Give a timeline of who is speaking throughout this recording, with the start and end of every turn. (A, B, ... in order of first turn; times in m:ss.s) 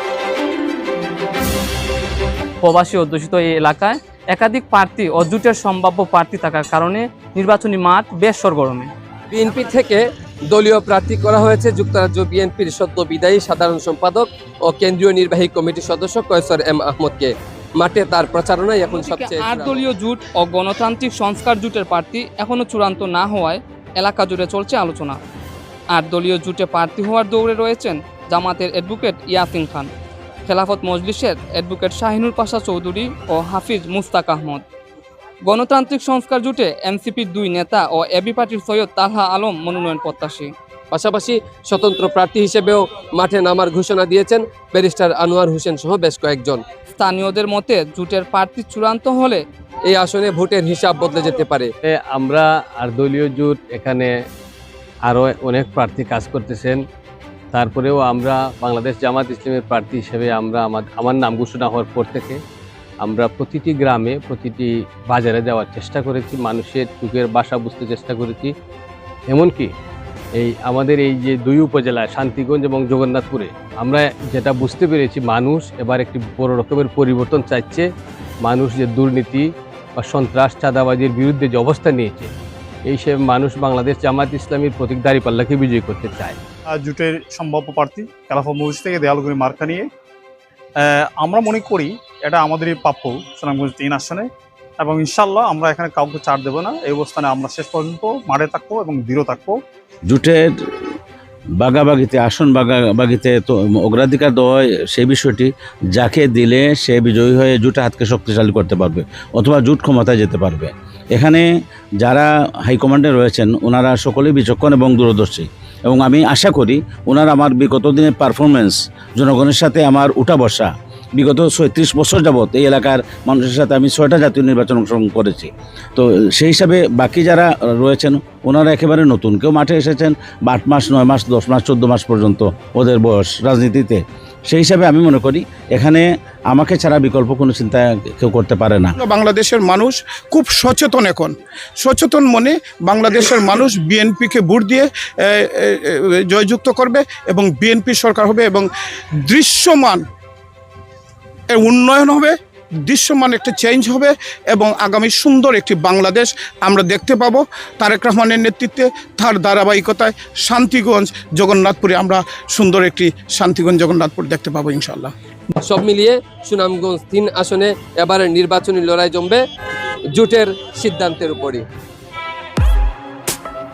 0:02.6-0:08.9 A
0:09.3-0:19.9 B
0:18.8-0:25.2 A
0:25.9-0:29.9 A
0:30.4-0:34.6 A
0:35.4-0:40.5 A
0:40.9-0:46.6 B
0:47.0-0:49.4 A
0:49.8-0:51.7 B
0:51.8-0:54.1 C
0:55.0-0:56.8 C
0:57.5-1:02.4 C
1:03.0-1:08.5 C
1:09.3-1:09.7 C
1:10.3-1:17.9 C
1:18.4-1:22.3 C
1:22.8-1:26.4 C
1:26.7-1:29.9 D
1:30.8-1:34.3 D
1:34.8-1:39.6 D
1:40.1-1:40.5 E
1:41.6-1:51.4 E
1:52.0-2:18.9 E
2:19.0-2:28.7 F
2:29.2-2:30.0 F
2:31.5-2:45.1 F
2:45.6-2:49.4 B
2:50.1-2:51.6 B